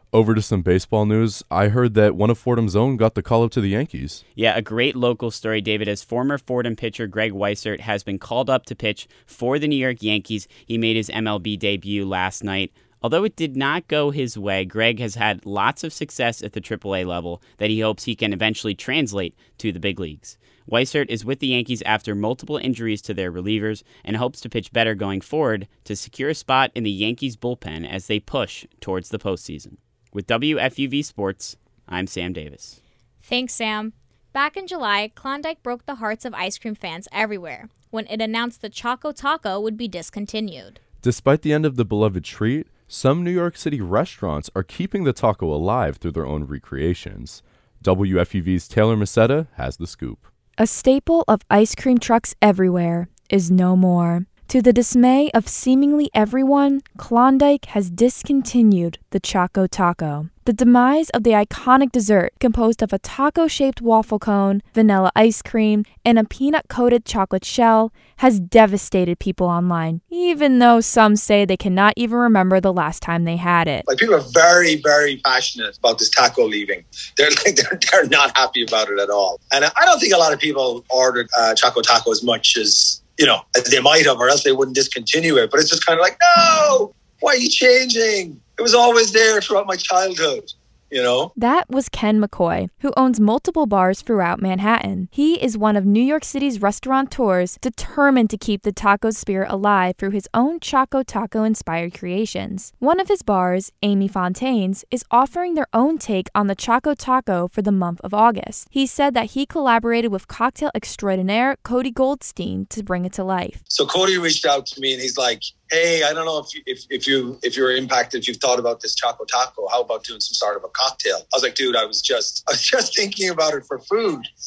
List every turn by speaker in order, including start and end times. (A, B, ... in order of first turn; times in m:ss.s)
0:00.1-0:04.2 A
0:04.4-0:32.8 B
0:33.2-0:40.8 C
0:41.0-0:50.3 A
0:50.6-1:13.9 D
1:13.9-1:31.3 E
1:31.4-1:53.6 D
1:53.7-2:04.3 E